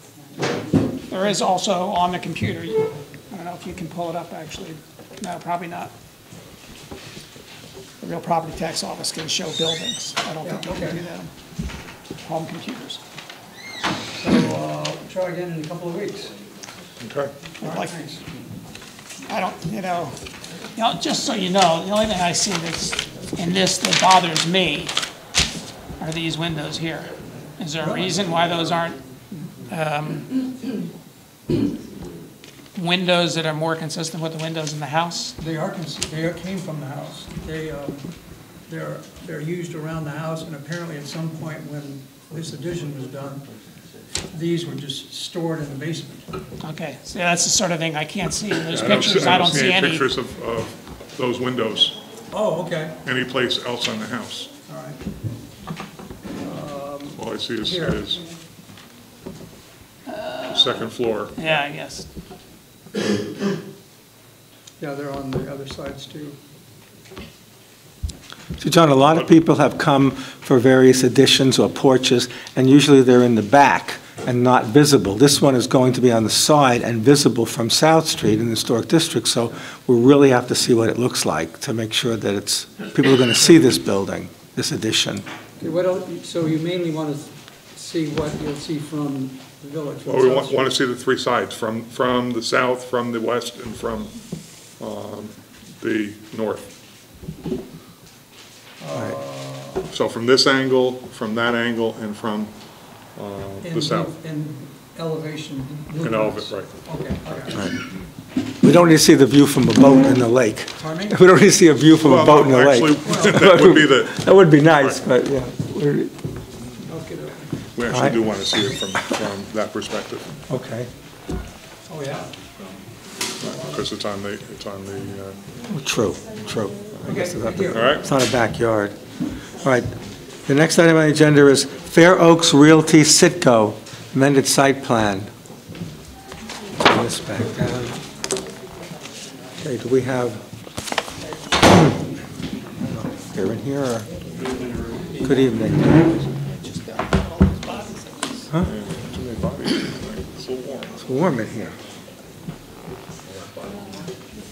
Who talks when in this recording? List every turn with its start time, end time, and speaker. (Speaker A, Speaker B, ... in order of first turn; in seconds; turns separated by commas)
Speaker A: 1.1-5.9, Speaker A: 8.0-11.3, Speaker B: 10.4-11.0, Speaker A: 12.2-13.0, Speaker B: 14.2-16.3, Speaker C: 17.0-17.3, Speaker B: 17.6-18.4, Speaker A: 17.6-17.9, Speaker A: 19.3-20.1, Speaker A: 20.8-24.9, Speaker A: 26.0-29.0, Speaker B: 27.8-28.7, Speaker A: 29.6-30.4, Speaker A: 32.7-35.4, Speaker B: 35.4-38.1, Speaker B: 38.7-43.5, Speaker B: 44.3-46.2, Speaker A: 46.6-50.1, Speaker C: 48.7-52.0, Speaker B: 52.3-53.0, Speaker C: 53.0-54.5, Speaker B: 54.6-55.0, Speaker B: 56.4-58.1, Speaker C: 57.2-58.2, Speaker A: 60.1-62.0, Speaker C: 60.5-61.3, Speaker B: 64.8-66.3, Speaker D: 68.6-85.2, Speaker B: 85.6-90.8, Speaker C: 90.0-94.1, Speaker C: 94.8-96.6, Speaker B: 98.8-99.9, Speaker C: 99.9-102.5, Speaker C: 103.2-104.1, Speaker B: 103.6-107.6, Speaker C: 106.0-106.7, Speaker D: 108.6-116.1, Speaker B: 110.8-111.2, Speaker C: 112.0-114.2, Speaker B: 113.0-113.4, Speaker B: 116.9-117.5, Speaker C: 117.8-120.3, Speaker D: 117.9-118.2, Speaker D: 120.5-120.9, Speaker B: 121.9-122.3, Speaker C: 123.4-125.4, Speaker B: 123.4-123.9, Speaker D: 125.7-129.0, Speaker B: 127.1-128.0, Speaker C: 127.7-128.0, Speaker D: 129.6-129.9, Speaker D: 130.4-135.3, Speaker D: 136.8-138.0, Speaker D: 139.6-140.4, Speaker D: 142.8-144.1, Speaker D: 145.2-146.1, Speaker A: 146.5-148.4, Speaker C: 148.6-150.9, Speaker D: 151.0-151.8